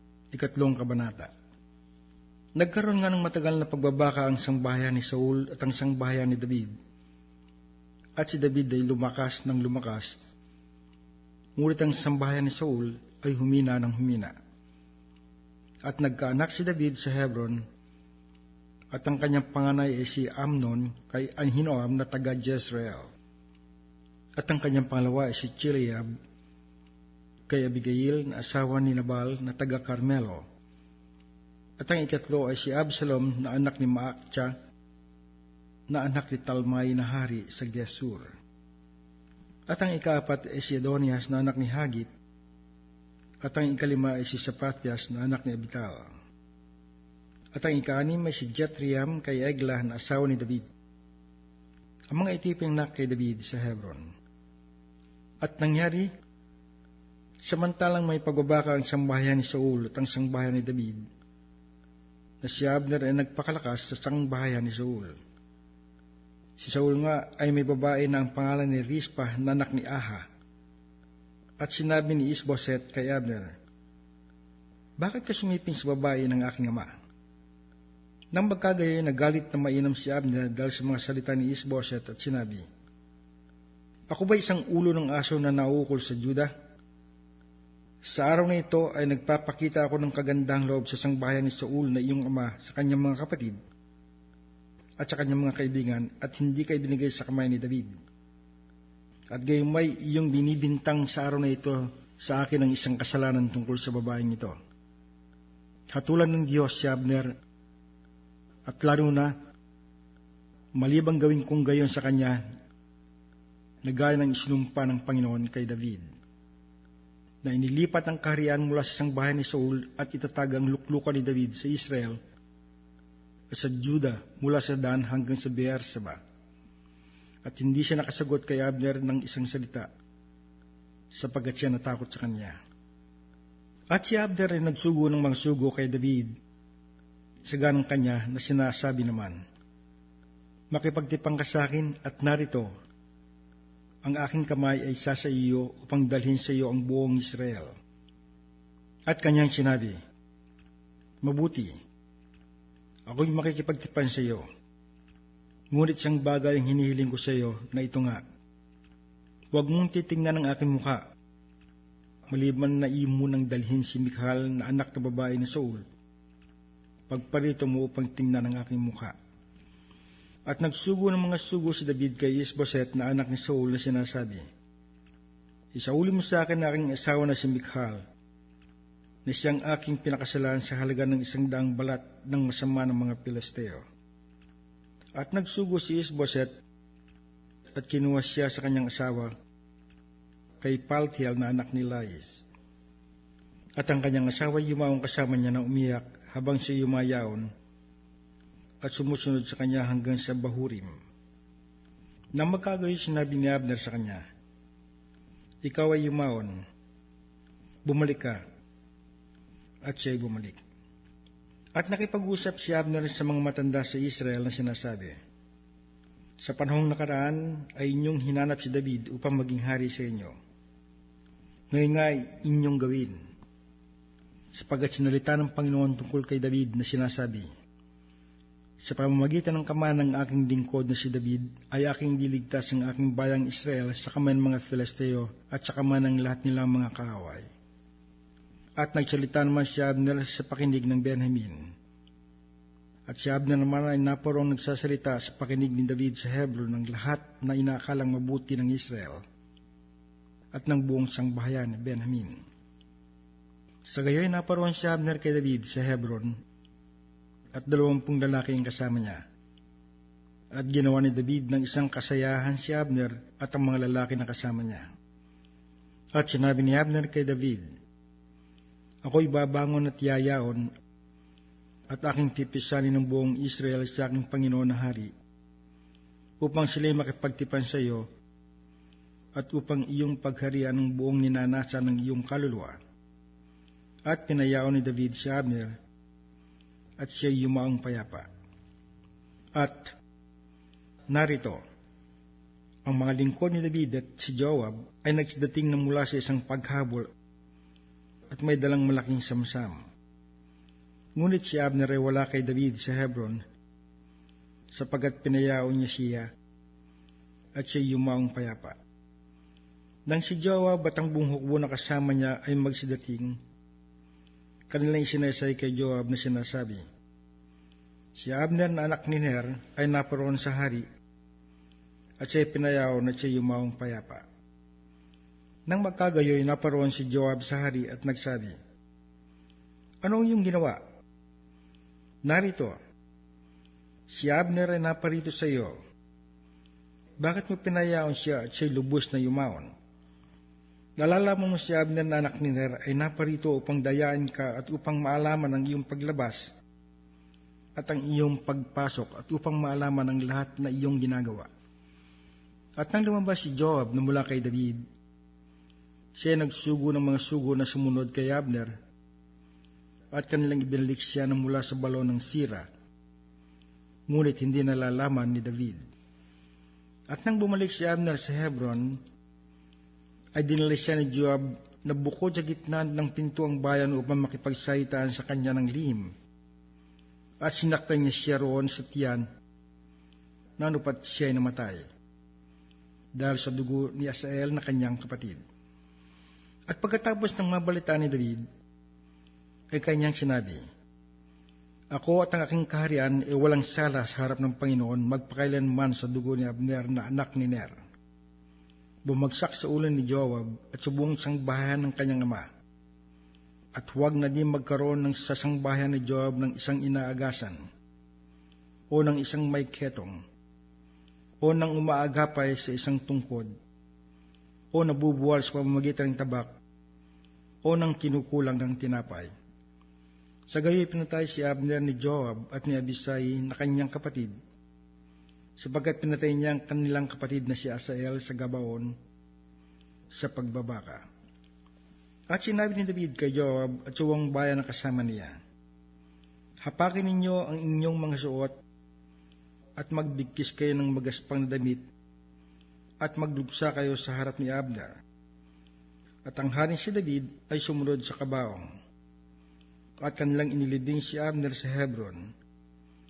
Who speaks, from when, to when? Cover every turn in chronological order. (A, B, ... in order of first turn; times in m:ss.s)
0:00.3-0:01.3 A
0:02.6-0:06.7 A
0:08.2-0:10.2 A
0:11.6-0:14.3 A
0:15.8-0:17.6 A
0:18.9-0:23.1 A
0:24.4-0:26.1 A
0:27.5-0:30.4 A
0:31.8-0:34.6 A
0:35.9-0:38.3 A
0:39.7-0:42.1 A
0:43.4-0:46.1 A
0:47.6-0:50.7 A
0:52.1-0:54.0 A
0:55.4-0:56.1 A
0:57.4-1:01.0 A
1:02.4-1:05.2 A
1:06.6-1:10.3 A
1:11.6-1:13.6 A
1:15.0-1:16.9 A
1:18.3-1:22.6 A
1:24.1-1:26.5 A
1:28.0-1:33.6 A
1:35.0-1:38.0 A
1:39.3-1:44.6 A
1:45.9-1:47.4 A
1:48.7-1:49.4 A
1:50.8-1:52.4 A
1:53.8-1:56.1 A
1:57.4-2:02.2 A
2:03.5-2:06.2 A
2:07.4-2:09.9 A
2:11.1-2:12.6 A
2:13.9-2:16.3 A
2:17.5-2:19.4 A
2:20.7-2:22.7 A
2:24.0-2:27.7 A
2:29.1-2:30.0 A
2:31.2-2:31.8 A
2:33.1-2:34.5 A
2:35.7-2:38.2 A
2:39.5-2:41.0 A
2:42.3-2:45.8 A
2:47.1-2:49.2 A
2:50.5-2:54.5 A
2:55.7-2:58.0 A
2:59.3-3:03.8 A
3:05.2-3:06.5 A
3:07.8-3:09.3 A
3:10.6-3:12.5 A
3:13.8-3:17.5 A
3:18.8-3:21.0 A
3:22.3-3:24.2 A
3:25.6-3:26.6 A
3:27.8-3:28.4 A
3:29.8-3:30.6 A
3:31.8-3:35.2 A
3:36.4-3:40.4 A
3:41.7-3:43.2 A
3:44.5-3:47.5 A
3:48.8-3:57.5 A
3:58.8-4:01.7 A
4:03.1-4:09.2 A
4:10.5-4:12.4 A
4:13.9-4:16.4 A
4:17.6-4:19.2 A
4:20.5-4:24.9 A
4:26.1-4:27.8 A
4:29.0-4:30.7 A
4:31.9-4:35.1 A
4:36.4-4:38.1 A
4:39.4-4:42.8 A
4:44.1-4:45.8 A
4:47.0-4:48.3 A
4:49.6-4:50.0 A
4:51.1-4:51.6 A
4:52.8-4:57.1 A
4:58.3-4:59.9 A
5:01.2-5:03.4 A
5:04.7-5:06.3 A
5:07.6-5:08.8 A
5:10.1-5:13.4 A
5:14.7-5:16.8 A
5:18.2-5:20.9 A
5:22.2-5:24.3 A
5:25.7-5:28.6 A
5:30.0-5:30.8 A
5:32.2-5:32.8 A
5:34.1-5:35.8 A
5:37.2-5:39.7 A
5:41.0-5:46.6 A
5:47.8-5:51.5 A
5:52.8-5:54.8 A
5:56.2-5:58.8 A
6:00.1-6:02.7 A
6:04.1-6:05.8 A
6:07.1-6:09.0 A
6:10.4-6:16.1 A
6:17.4-6:19.3 A
6:20.6-6:21.9 A
6:23.2-6:25.4 A
6:26.7-6:28.4 A
6:29.7-6:30.6 A
6:31.9-6:37.8 A
6:39.0-6:42.5 A
6:43.8-6:47.6 A
6:48.9-6:50.2 A
6:51.4-6:53.5 A
6:54.7-6:56.6 A
6:57.6-6:59.3 A
7:00.5-7:04.3 A
7:05.6-7:09.0 A
7:10.1-7:11.1 A
7:12.3-7:15.4 A
7:16.6-7:18.6 A
7:19.8-7:21.8 A
7:23.0-7:25.0 A
7:26.2-7:28.7 A
7:30.0-7:32.3 A